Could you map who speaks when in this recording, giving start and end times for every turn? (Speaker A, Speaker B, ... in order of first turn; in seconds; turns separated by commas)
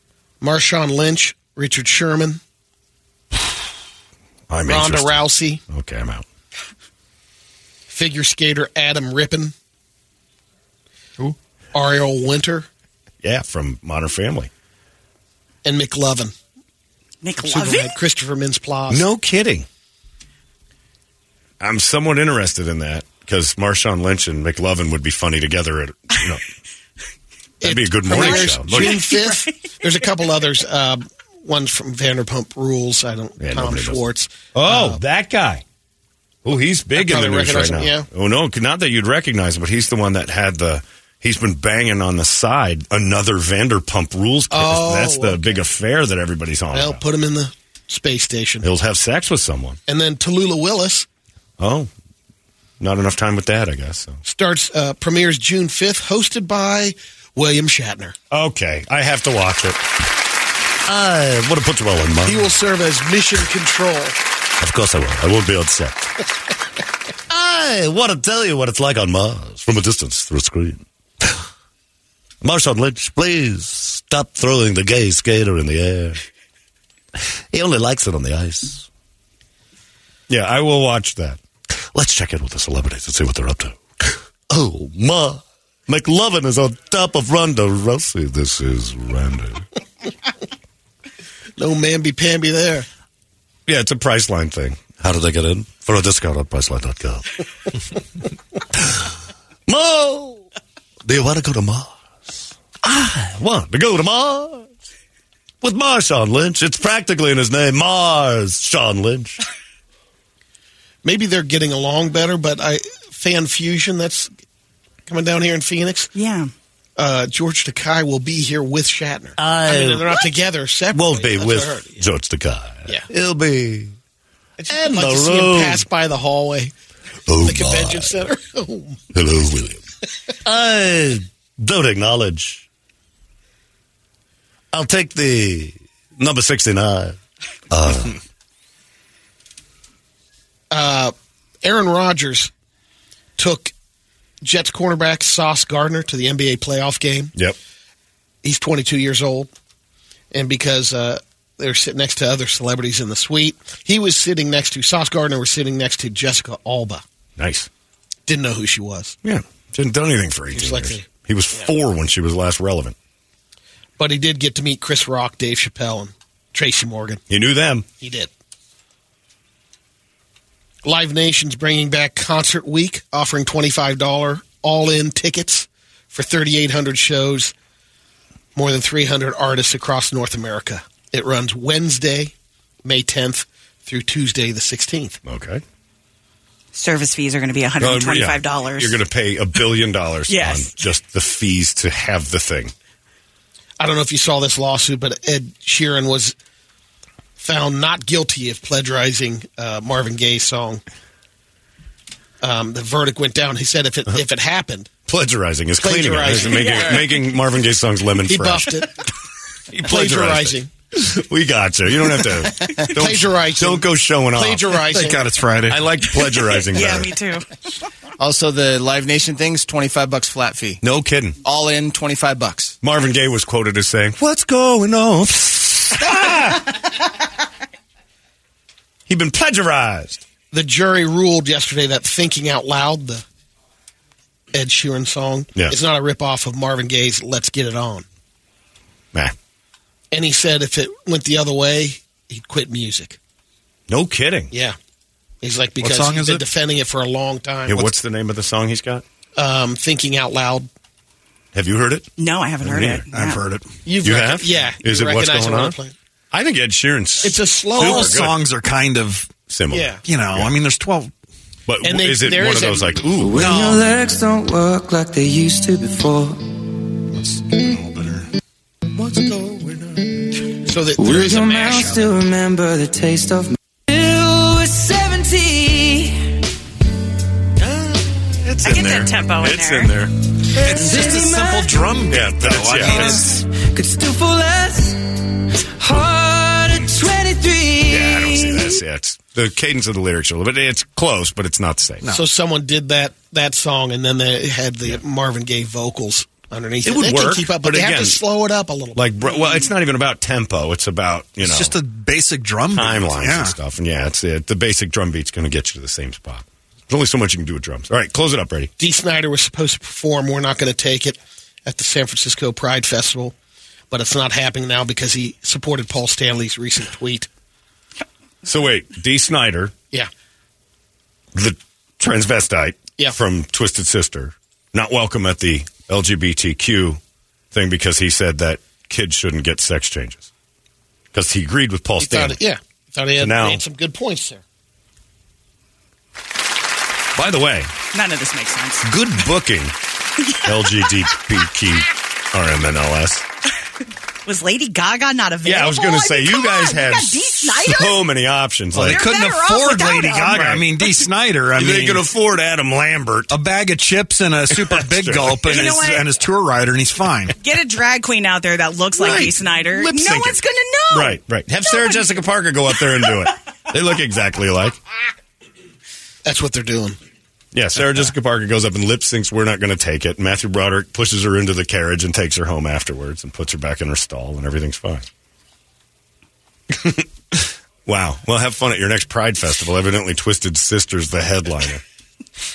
Speaker A: 0.4-2.4, Speaker B: 4.5-6.2, Speaker A: 4.7-5.6, Speaker A: 7.9-9.5, Speaker A: 11.7-12.7, Speaker B: 13.2-14.5, Speaker A: 15.6-16.3, Speaker C: 17.2-17.9, Speaker A: 17.4-19.0, Speaker B: 18.9-19.7, Speaker B: 21.6-26.4, Speaker A: 27.6-35.0, Speaker B: 27.6-29.1, Speaker C: 28.1-29.5, Speaker B: 33.4-34.0, Speaker B: 34.5-35.6, Speaker B: 36.5-47.0, Speaker A: 37.0-38.1, Speaker A: 44.5-45.6, Speaker A: 46.7-48.7, Speaker B: 48.6-49.8, Speaker A: 49.9-51.1, Speaker B: 51.6-51.9, Speaker B: 52.8-54.2, Speaker A: 54.2-58.1, Speaker B: 58.3-59.8, Speaker B: 60.9-62.5, Speaker A: 62.2-64.2, Speaker B: 64.6-66.2, Speaker B: 67.3-71.4, Speaker B: 72.4-76.2, Speaker B: 77.5-78.9, Speaker B: 80.3-89.7, Speaker A: 91.6-92.9, Speaker B: 93.7-97.4, Speaker B: 99.7-100.4, Speaker B: 101.1-102.0, Speaker B: 102.8-104.7, Speaker B: 105.6-109.4, Speaker A: 111.0-114.3, Speaker A: 115.1-116.1, Speaker C: 116.2-116.5, Speaker A: 117.0-122.0, Speaker B: 119.4-119.9, Speaker B: 120.9-124.0, Speaker A: 124.6-126.7, Speaker B: 124.7-125.8, Speaker B: 127.3-128.1, Speaker A: 127.4-129.0, Speaker B: 129.1-129.8, Speaker B: 130.4-132.7, Speaker B: 134.7-137.2, Speaker B: 137.7-138.2, Speaker A: 140.7-142.5, Speaker A: 143.4-143.7, Speaker A: 144.4-147.3, Speaker A: 148.4-149.5, Speaker A: 150.3-157.0, Speaker B: 157.4-157.7, Speaker A: 158.3-159.2, Speaker B: 159.2-162.9, Speaker A: 160.5-161.1, Speaker A: 164.0-167.2, Speaker B: 167.3-167.9, Speaker A: 168.0-168.3, Speaker A: 170.8-177.5, Speaker A: 178.6-182.3, Speaker A: 182.8-185.2, Speaker B: 185.2-185.6, Speaker C: 186.7-189.0, Speaker B: 187.8-192.7, Speaker C: 190.3-190.8, Speaker A: 193.8-196.3, Speaker A: 197.4-200.8, Speaker A: 202.4-204.9, Speaker B: 205.1-208.7, Speaker A: 205.8-207.0, Speaker C: 206.4-207.0, Speaker A: 208.3-208.9, Speaker B: 209.7-214.7, Speaker A: 209.9-210.7, Speaker A: 212.9-215.2, Speaker D: 214.9-215.9, Speaker B: 215.7-217.1, Speaker C: 216.6-217.5, Speaker E: 218.2-220.8, Speaker B: 220.8-221.4, Speaker E: 221.4-222.7, Speaker B: 222.8-226.7, Speaker B: 229.1-230.2, Speaker A: 230.5-233.2, Speaker A: 234.5-238.1, Speaker A: 240.1-243.2, Speaker B: 243.9-244.5, Speaker A: 245.4-247.8, Speaker D: 245.8-246.4, Speaker B: 247.7-249.0, Speaker A: 249.4-250.7, Speaker B: 251.5-252.1, Speaker C: 252.2-253.4, Speaker B: 252.6-253.1, Speaker D: 253.1-253.7, Speaker A: 253.8-255.9, Speaker B: 254.0-255.8, Speaker B: 256.3-258.3, Speaker A: 257.2-258.1, Speaker D: 257.8-259.3, Speaker B: 259.5-260.5, Speaker A: 259.7-260.0, Speaker D: 260.0-261.1, Speaker B: 261.7-263.6, Speaker A: 261.8-262.9, Speaker F: 263.2-266.4, Speaker D: 263.4-263.9, Speaker D: 267.1-268.3, Speaker B: 269.0-270.1, Speaker A: 270.6-272.1, Speaker F: 271.0-276.4, Speaker B: 277.6-281.1, Speaker C: 278.6-280.0, Speaker D: 280.6-283.4, Speaker F: 280.6-281.9, Speaker B: 282.1-283.3, Speaker F: 282.8-288.7, Speaker B: 287.9-292.1, Speaker A: 292.1-299.1, Speaker B: 296.9-298.2, Speaker B: 298.9-301.7, Speaker D: 301.4-303.6, Speaker B: 302.7-308.7, Speaker A: 308.8-313.3, Speaker A: 313.9-317.3, Speaker B: 318.4-319.7, Speaker B: 321.3-327.0, Speaker B: 327.5-330.3, Speaker B: 331.1-332.4, Speaker A: 332.0-334.4, Speaker B: 333.2-333.6, Speaker B: 337.1-337.7, Speaker C: 337.9-338.9, Speaker B: 338.9-339.8, Speaker B: 340.4-343.2, Speaker C: 340.6-341.0, Speaker C: 344.2-348.1, Speaker B: 345.4-349.0, Speaker D: 348.7-352.0, Speaker C: 348.8-350.9, Speaker B: 351.5-353.3, Speaker D: 353.3-357.4, Speaker B: 354.5-355.6, Speaker C: 355.4-356.1, Speaker C: 357.4-362.0, Speaker B: 359.0-360.4, Speaker B: 360.9-364.8, Speaker C: 362.8-363.1, Speaker A: 366.2-367.0, Speaker B: 367.5-375.1, Speaker B: 376.7-381.8